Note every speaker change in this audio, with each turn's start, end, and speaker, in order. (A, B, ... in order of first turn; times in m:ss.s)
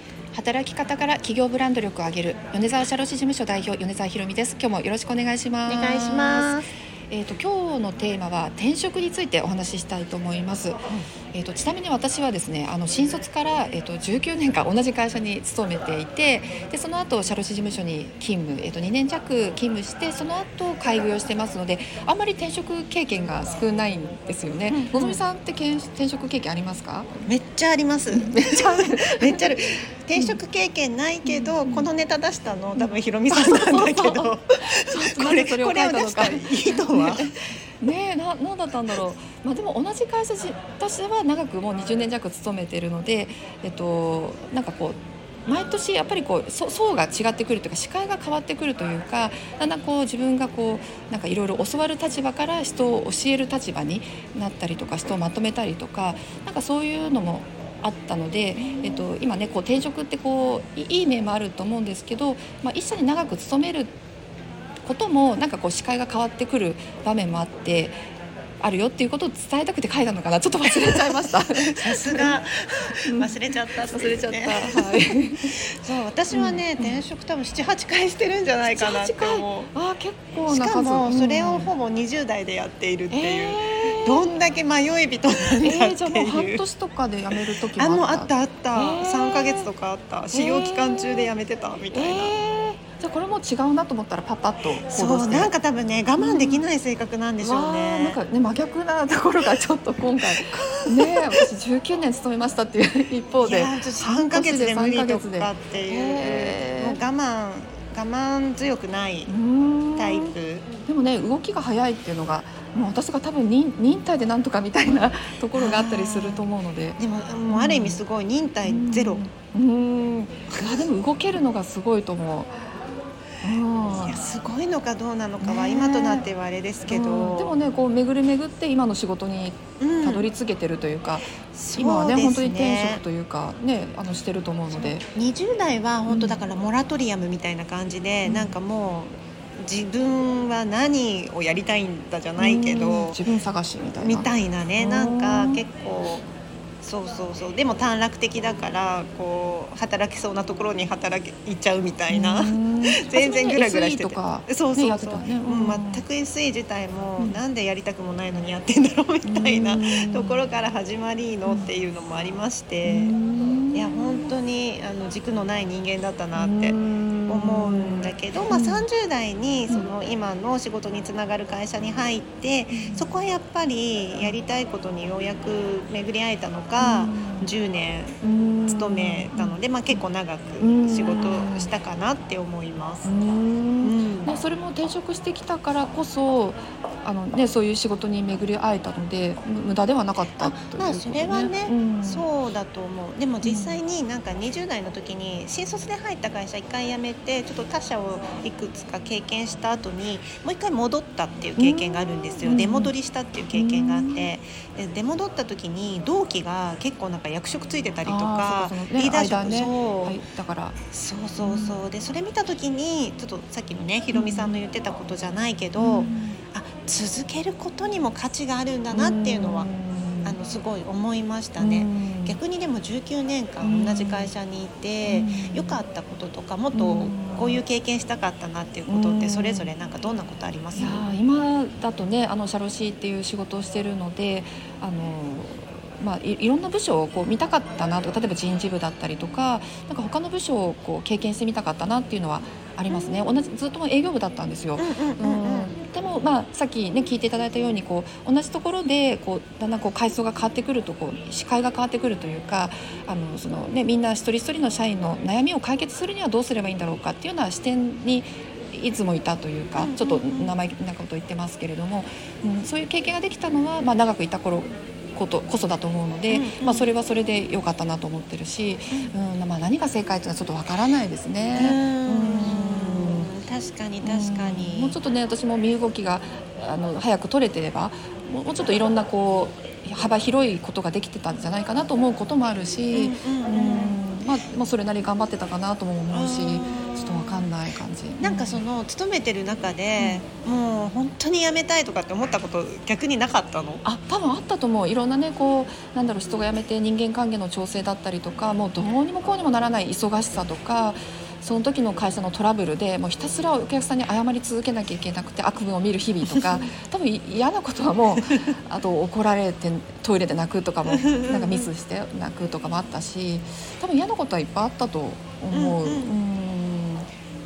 0:00.3-0:10.8 A
0:05.6-0:06.7 B
0:11.3-0:27.1 A
0:24.7-0:25.2 B
0:27.2-0:37.2 B
0:28.1-0:29.5 A
0:31.2-0:31.9 A
0:32.8-1:03.9 A
1:04.8-1:08.0 A
1:08.6-1:12.4 A
1:10.7-1:19.7 B
1:13.0-1:15.5 A
1:16.3-1:17.0 A
1:18.7-1:21.7 A
1:20.4-1:26.6 B
1:23.1-1:24.3 A
1:25.6-1:29.7 A
1:27.3-1:32.3 B
1:30.3-1:31.3 A
1:31.9-1:35.5 A
1:34.9-1:38.2 B
1:36.2-1:36.6 A
1:37.4-1:47.0 A
1:40.2-1:41.5 B
1:43.4-1:49.3 B
1:49.3-1:50.3 A
1:50.0-1:50.6 B
1:50.8-1:58.0 A
1:55.5-1:56.5 B
1:57.0-1:59.2 B
1:58.6-2:02.6 A
2:03.4-2:04.2 A
2:03.9-2:07.5 B
2:05.4-2:06.2 A
2:06.9-2:15.0 A
2:09.8-2:10.3 B
2:11.5-2:13.0 B
2:14.7-2:23.2 B
2:16.1-2:16.4 A
2:18.2-2:18.5 A
2:22.4-2:25.6 A
2:24.0-2:26.2 B
2:26.8-2:43.1 B
2:32.1-2:36.0 A
2:39.2-2:40.4 A
2:42.8-2:44.3 A
2:43.7-3:03.1 B
2:46.4-2:48.8 A
2:52.7-2:53.1 A
2:56.8-2:57.5 A
2:58.2-3:00.0 A
3:00.6-3:01.7 A
3:03.0-3:12.3 A
3:03.8-3:04.3 B
3:10.4-3:30.2 B
3:13.4-3:13.8 A
3:21.6-3:22.9 A
3:23.5-3:24.3 A
3:28.0-3:30.8 A
3:30.9-3:39.7 B
3:31.4-3:31.8 A
3:34.1-3:34.6 A
3:35.8-3:36.4 A
3:38.9-3:40.4 A
3:40.2-3:51.0 B
3:41.6-3:42.4 A
3:43.6-3:44.3 A
3:45.0-3:45.8 A
3:46.7-3:47.6 A
3:48.9-3:49.7 A
3:50.7-4:33.3 A
4:02.9-4:03.2 B
4:04.8-4:05.7 B
4:19.8-4:20.6 B
4:26.3-4:26.9 B
4:31.5-4:35.0 B
4:34.0-4:48.6 A
4:42.9-4:44.0 B
4:46.1-4:47.5 B
4:48.2-4:53.8 B
4:50.0-4:50.2 A
4:53.8-5:17.1 A
5:10.9-5:11.7 B
5:15.5-5:16.1 B